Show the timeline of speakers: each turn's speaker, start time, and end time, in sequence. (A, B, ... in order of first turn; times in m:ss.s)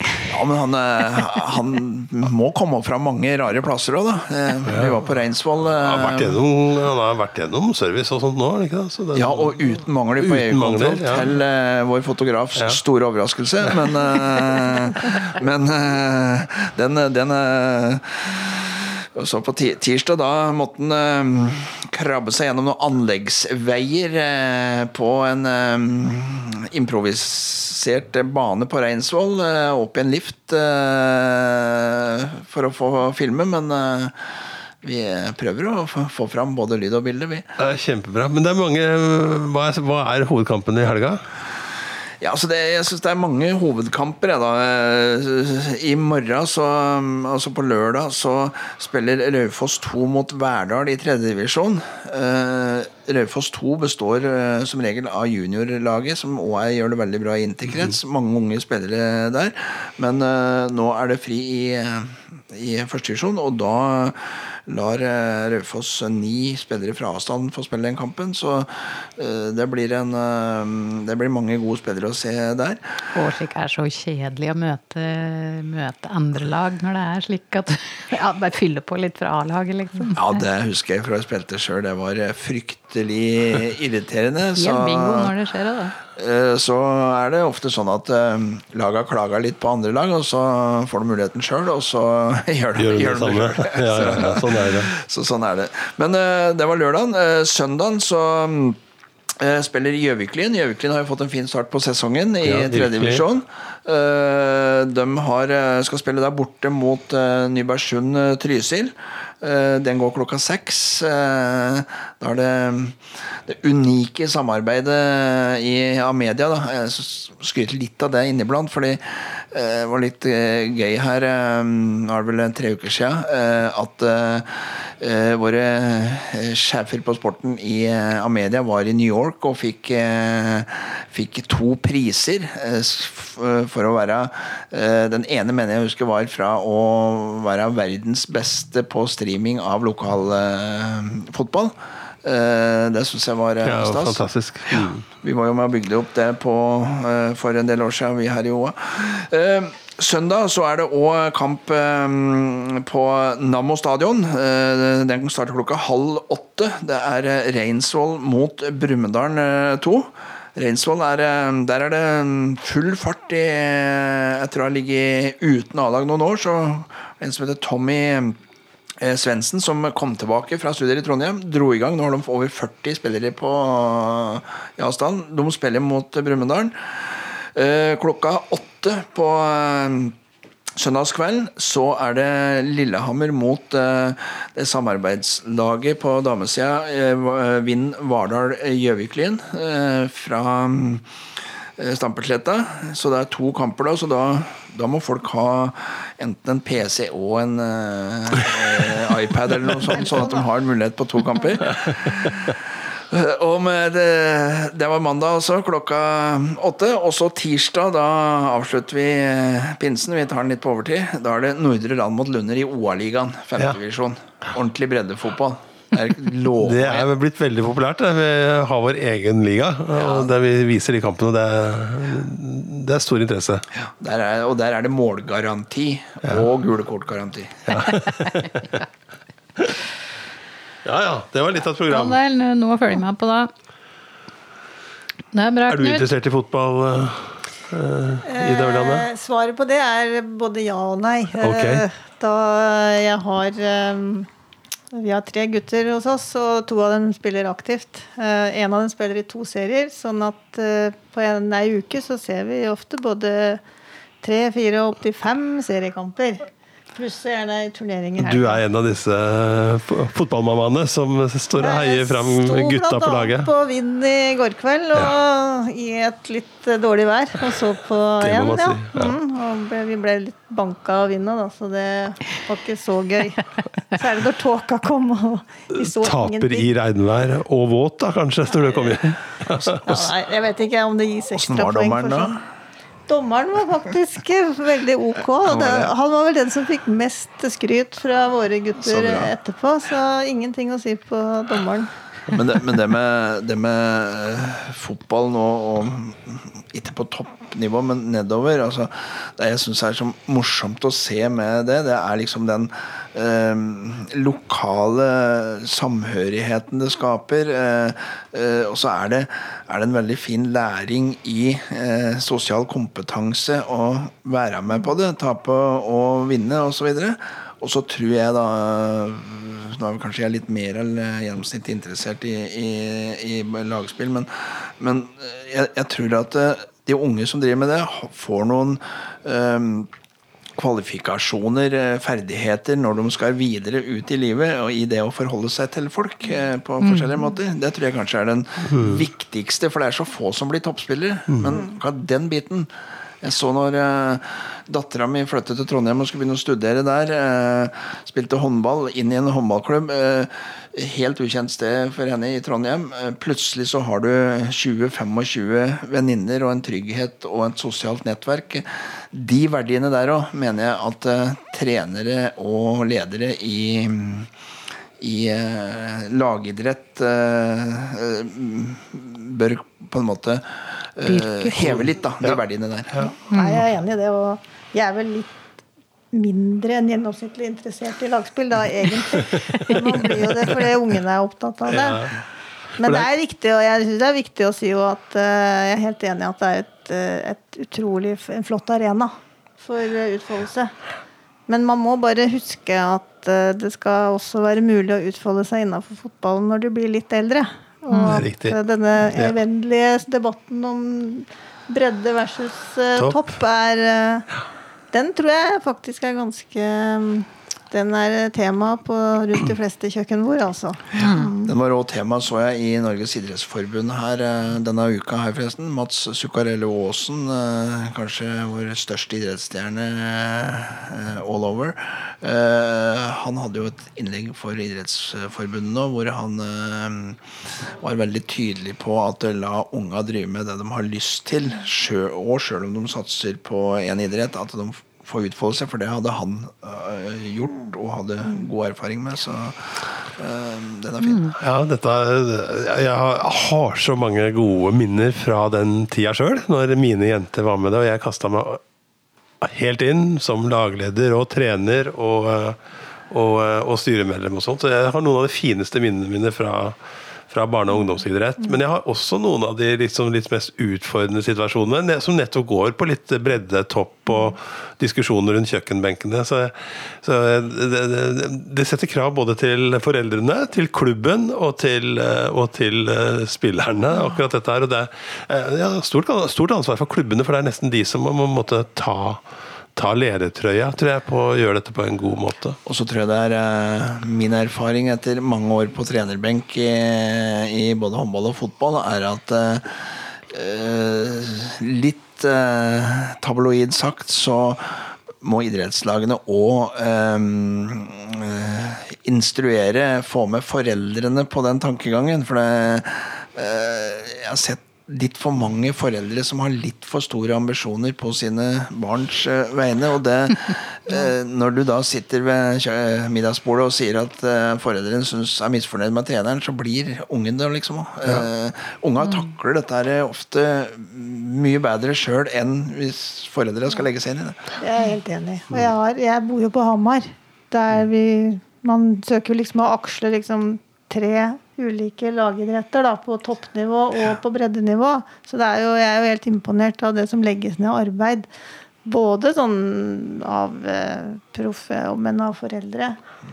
0:00.2-0:06.4 A
0:04.7-0:05.0 B
0:05.8-0:09.6 B
0:09.1-0:37.5 A
0:10.2-0:11.3 B
0:37.6-0:41.2 B
0:42.2-1:12.9 A
1:13.1-1:20.4 C
1:20.1-1:25.3 A
1:24.6-1:26.0 C
1:26.1-2:48.4 A
1:32.8-1:34.9 B
1:42.4-1:43.2 B
2:23.6-2:25.0 B
2:49.0-3:00.2 A
3:00.7-3:11.1 A
3:11.8-3:37.1 A
3:36.6-3:43.6 B
3:40.0-3:40.3 A
3:43.7-3:47.8 A
3:47.7-3:48.8 B
3:50.8-3:52.2 B
3:51.9-3:53.5 C
3:55.3-3:56.1 C
3:55.7-3:59.1 B
3:58.2-4:04.3 D
4:01.4-4:01.8 B
4:04.9-4:13.6 D
4:14.2-4:18.6 D
4:18.2-4:23.5 B
4:21.6-4:36.7 D
4:28.2-4:29.2 B
4:35.7-4:40.1 B
4:38.6-4:38.9 D
4:39.8-4:42.4 D
4:41.3-4:42.4 A
4:43.1-4:51.9 D
4:45.4-4:45.9 A
4:48.8-4:49.3 A
4:52.3-5:29.9 A
5:30.6-6:04.3 A
5:36.8-5:37.1 C
5:38.7-5:39.0 B
6:05.0-6:13.1 A
6:11.4-6:12.4 B
6:13.2-6:15.4 D
6:13.3-6:13.6 C
6:16.1-6:22.1 D
6:19.2-6:20.7 B
6:21.7-6:22.2 B
6:22.8-6:30.7 D
6:22.8-6:23.1 B
6:31.5-6:44.3 D
6:37.9-6:38.2 C
6:38.0-6:39.4 B
6:44.9-6:51.5 D
6:50.9-6:51.3 C
6:51.4-7:21.3 A
7:21.0-7:21.4 C
7:21.4-7:28.6 B
7:29.4-7:32.6 B
7:33.1-7:36.8 B
7:37.3-7:59.2 B
7:59.8-8:02.6 B
8:02.6-8:44.5 A
8:44.6-8:58.3 D
8:58.8-9:03.0 D